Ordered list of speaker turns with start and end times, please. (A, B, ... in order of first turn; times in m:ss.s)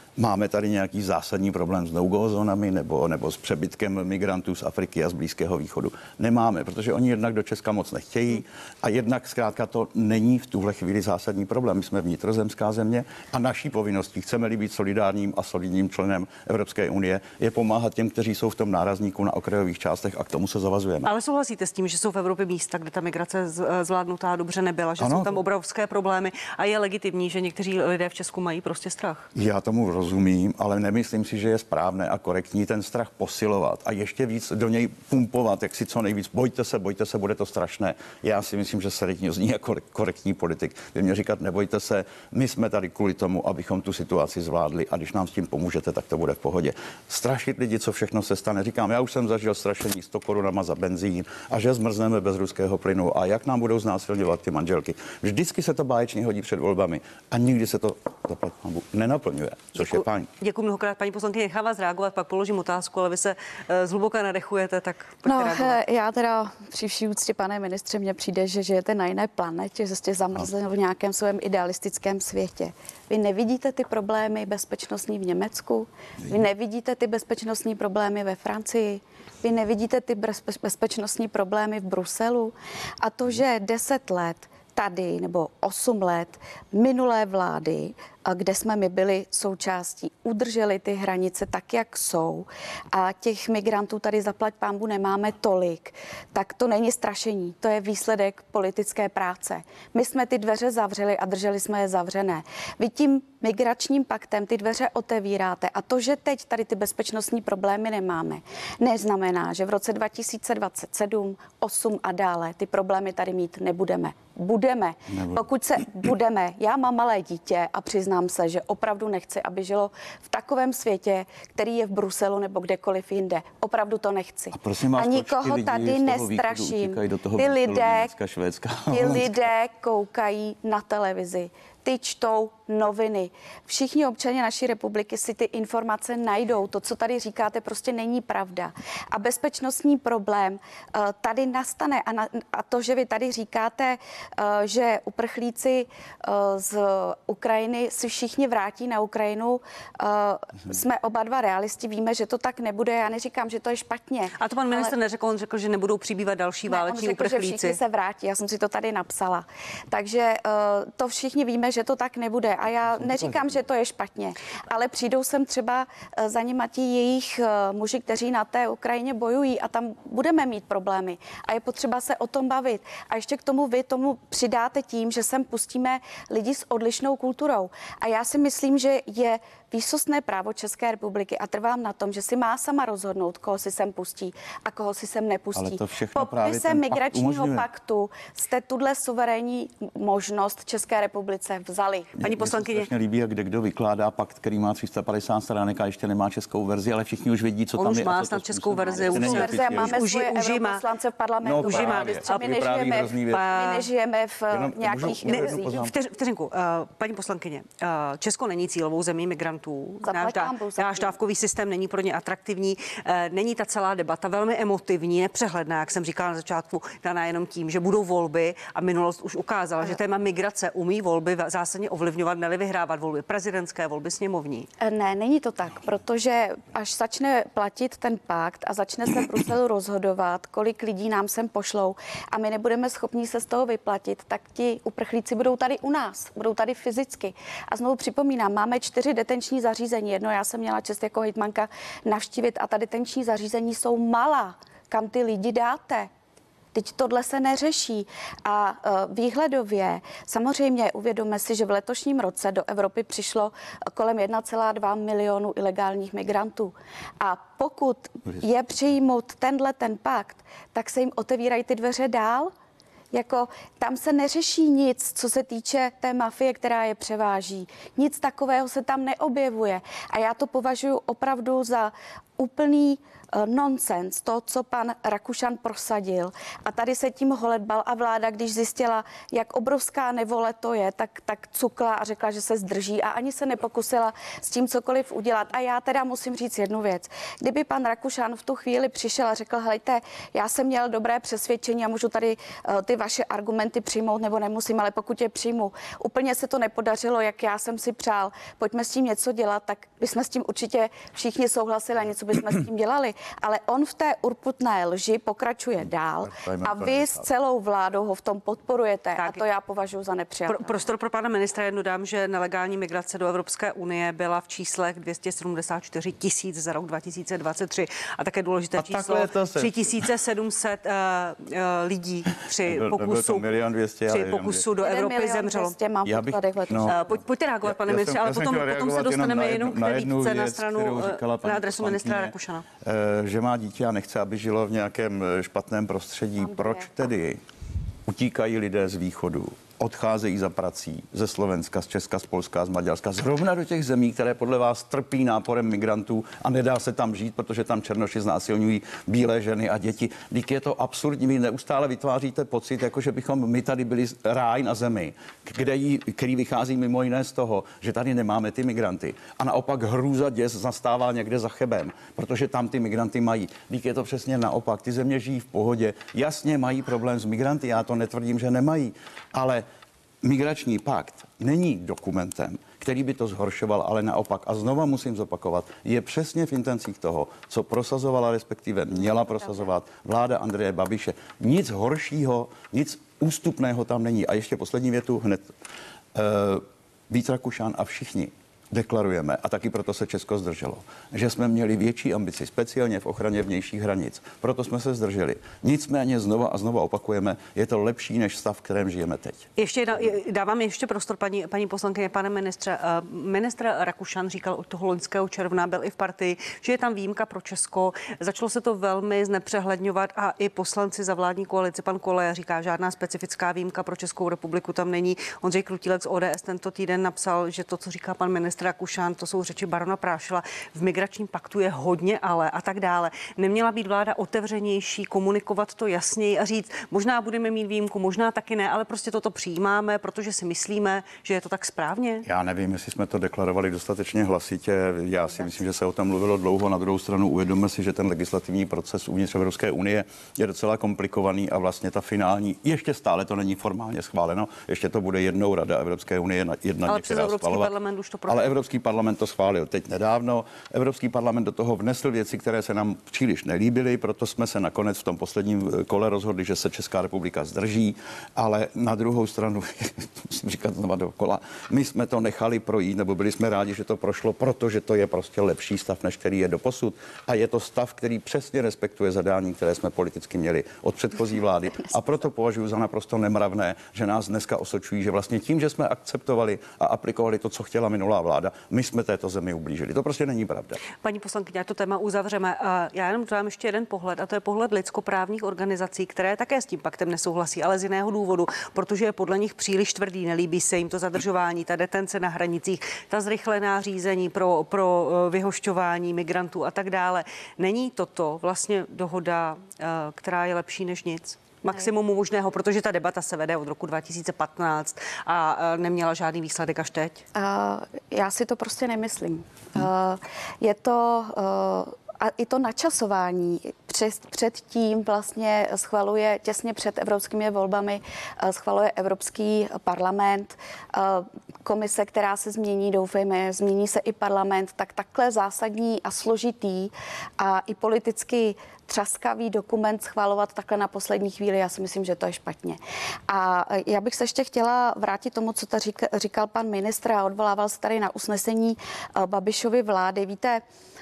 0:00.2-0:21.1 A
0:21.0-0:29.3 B
0:25.0-0:25.4 A
0:29.4-1:00.3 A
0:59.8-1:05.8 B
1:05.3-2:08.1 C
1:55.1-1:55.4 A
2:04.5-2:09.4 A
2:08.9-2:34.9 C
2:34.4-2:37.8 B
2:36.7-3:12.1 C
2:42.9-2:43.6 A
3:05.6-3:07.6 A
3:12.2-3:20.0 A
3:12.2-3:12.9 B
3:17.8-3:20.8 B
3:19.0-3:25.8 C
3:21.4-3:23.4 A
3:21.6-3:22.5 B
3:23.3-3:23.9 B
3:24.5-3:25.9 A
3:25.3-3:44.7 B
3:30.0-3:31.2 C
3:44.8-4:06.1 C
4:06.7-4:22.5 C
4:23.1-5:10.7 C
5:06.2-5:07.3 A
5:10.5-5:23.5 B
5:18.8-5:20.1 A
5:22.6-5:24.6 A
5:24.1-5:25.8 B
5:24.8-5:27.0 C
5:26.0-5:27.0 A
5:26.9-5:32.7 B
5:27.6-5:37.4 A
5:36.6-5:36.8 C
5:38.1-6:09.6 A
6:10.2-6:25.5 A
6:26.1-6:39.5 A
6:39.6-7:12.3 B
7:12.3-7:27.7 A
7:26.9-7:28.6 B
7:28.3-8:00.8 A
8:01.0-8:27.2 B
8:27.4-9:00.6 C